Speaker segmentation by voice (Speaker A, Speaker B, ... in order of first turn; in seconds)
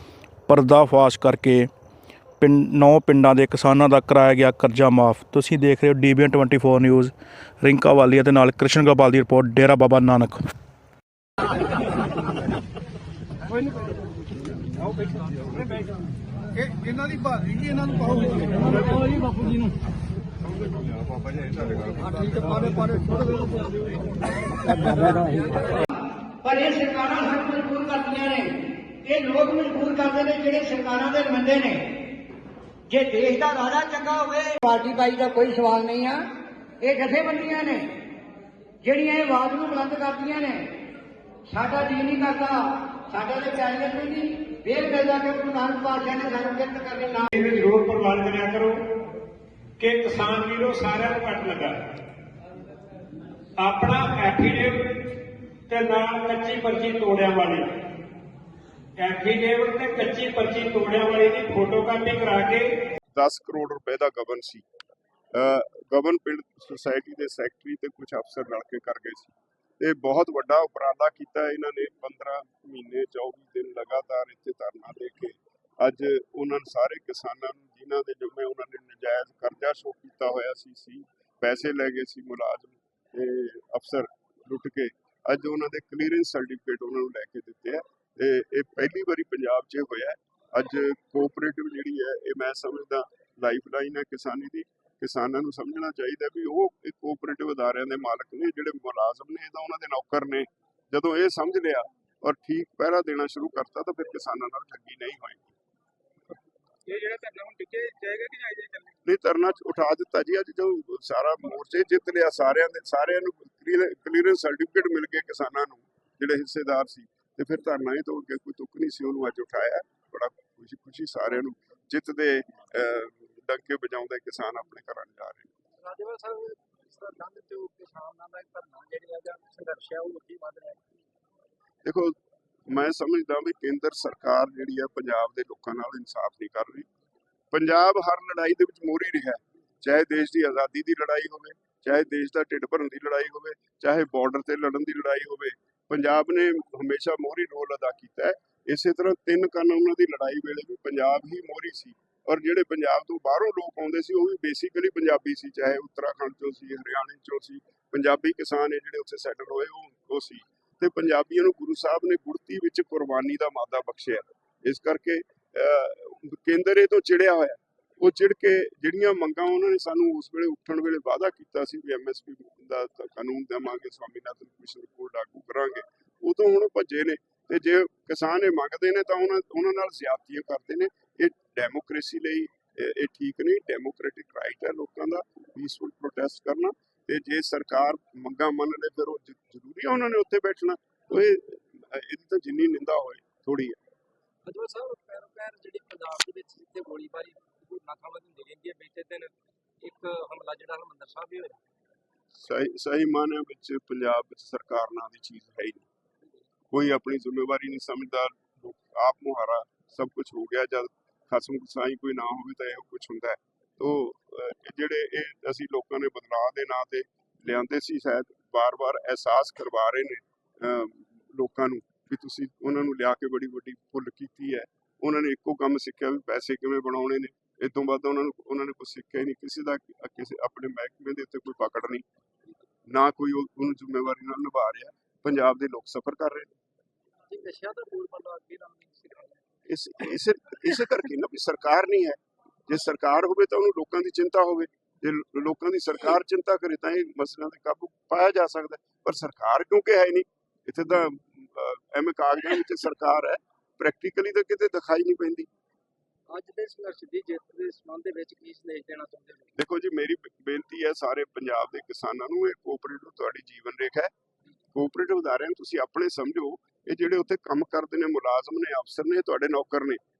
Speaker A: 0.5-1.7, 2.4-10.4
Speaker B: 26.4-31.9, 32.9-36.2, 36.8-37.9, 38.8-40.7, 41.5-47.3
Speaker C: 47.5-48.7, 49.8-51.6, 53.7-54.6, 55.7-57.4, 59.9-61.6
Speaker D: 63.1-64.7, 65.3-105.5, 109.0-125.5, 131.8-132.2, 132.7-136.9, 137.5-193.8, 202.3-205.9, 206.7-232.1, 232.9-236.5, 239.7-255.5, 259.6-264.1, 264.7-270.0
Speaker E: 106.9-108.9, 125.8-131.0, 194.4-201.6, 237.3-239.4, 256.3-259.5